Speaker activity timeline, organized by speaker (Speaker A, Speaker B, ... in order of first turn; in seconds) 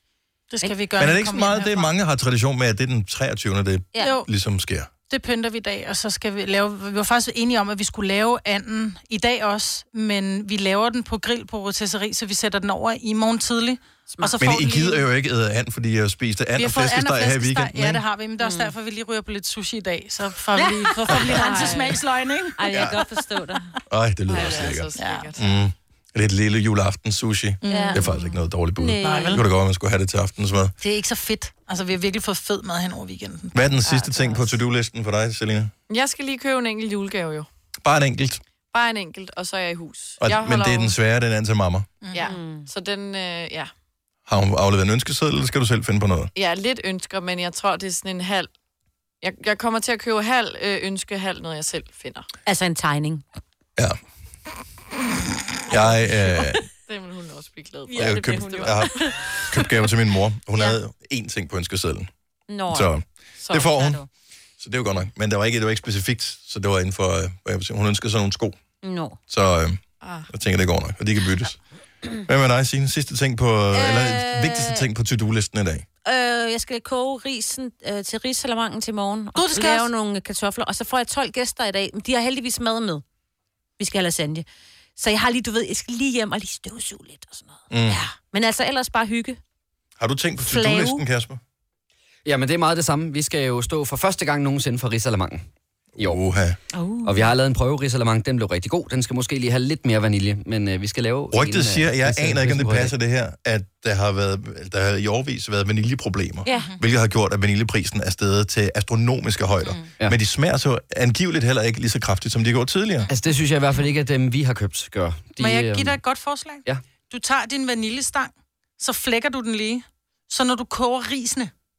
Speaker A: 0.5-1.9, 4.0-4.3, 5.1-15.1, 16.6-23.2, 24.9-25.3, 27.6-28.1, 29.0-29.4, 30.8-33.5, 42.0-42.3, 79.3-79.9, 106.5-106.8, 115.4-121.5
Speaker B: 1.0-4.9, 14.4-18.0, 22.7-23.0, 23.9-30.7, 33.5-35.7, 37.8-38.4, 40.2-41.9, 44.2-46.3, 55.7-56.6, 58.0-58.9, 59.5-62.1, 62.7-64.0, 64.6-68.6, 69.3-71.6, 72.2-75.8, 87.7-88.0, 90.0-91.4, 96.0-96.6, 101.3-113.1
Speaker C: 3.9-4.2, 14.1-14.4, 18.4-18.7, 20.5-22.0, 22.6-23.8, 24.3-24.8, 27.7-29.4, 42.2-42.7, 52.5-53.2, 57.9-59.4, 60.5-60.8, 62.5-62.9, 63.6-64.0, 68.8-69.2, 73.7-74.9, 76.0-83.0, 83.8-89.4, 90.4-91.0, 96.7-97.3, 106.4-106.7
Speaker D: 24.3-25.6, 33.9-34.4, 35.9-37.5, 38.7-40.9, 42.1-43.7, 46.3-48.5, 49.2-52.3, 56.9-59.0, 63.4-63.8, 70.0-70.3
Speaker E: 92.2-95.4, 97.0-102.9, 113.1-116.0